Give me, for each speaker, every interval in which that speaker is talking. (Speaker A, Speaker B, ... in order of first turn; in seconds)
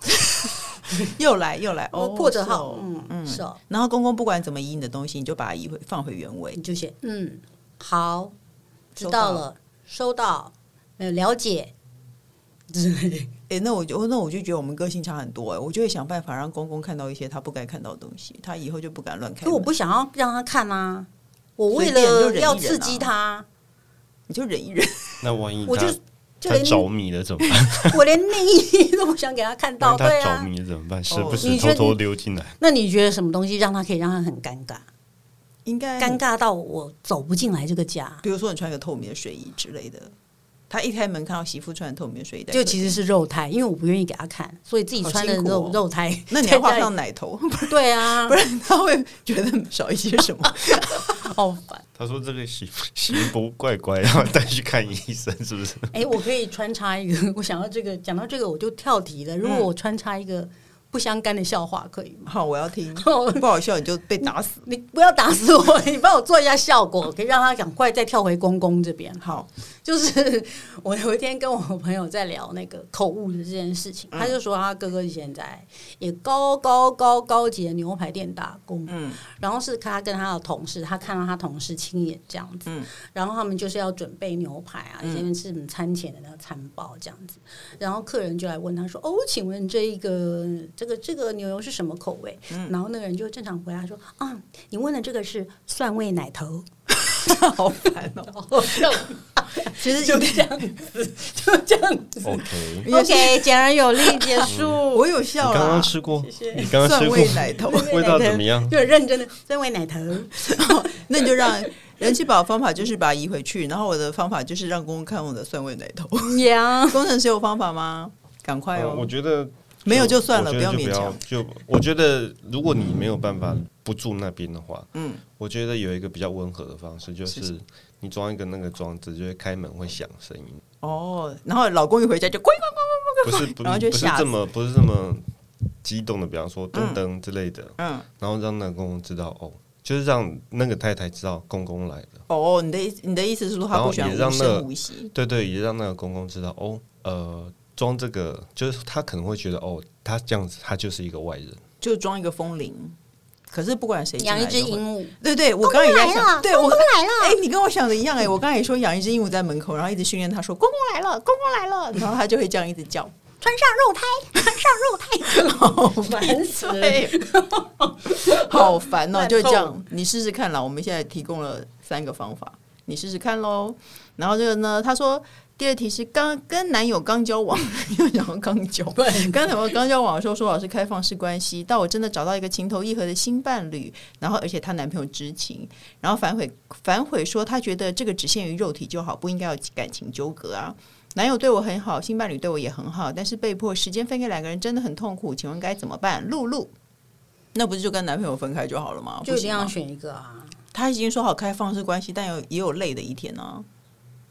Speaker A: 1.0-6.6, 9.0-9.4, 13.5-19.7, 21.7-23.1, 24.3-25.3, 31.1-31.7, 35.6-36.2, 38.2-40.1, 40.7-43.0, 45.0-45.8, 46.3-51.1, 59.4-59.7, 62.3-64.7, 69.2-69.5, 78.9-79.2, 85.0-85.3, 97.1-99.0, 99.7-100.7, 102.8-106.0, 106.7-108.0, 110.4-116.4, 116.9-119.1, 119.8-121.2, 124.9-125.2, 130.8-134.3, 136.7-137.0, 137.8-138.1, 142.3-145.1, 151.8-153.0, 153.5-163.1, 165.3-167.1, 168.1-196.7, 197.5-199.7, 200.7-203.7
Speaker B: 1.9-3.6, 6.5-8.3, 8.9-11.7, 12.7-13.3, 19.4-23.5, 25.6-26.9, 27.9-30.5, 31.4-32.0, 32.6-34.9, 36.0-38.2, 42.5-46.9, 47.7-48.4, 51.1-51.8, 55.9-62.3, 63.0-63.5, 64.2-69.2, 69.8-96.7, 98.3-105.0, 106.1-106.7, 107.3-110.8, 116.2-117.1, 154.2-157.4, 163.4-169.8, 179.0-179.4, 199.2-200.6
Speaker C: 25.2-28.0, 29.8-32.5, 52.0-55.9, 102.2-102.9, 104.5-104.8, 105.4-108.8, 118.8-130.6, 133.2-135.3, 135.8-142.2, 143.7-151.6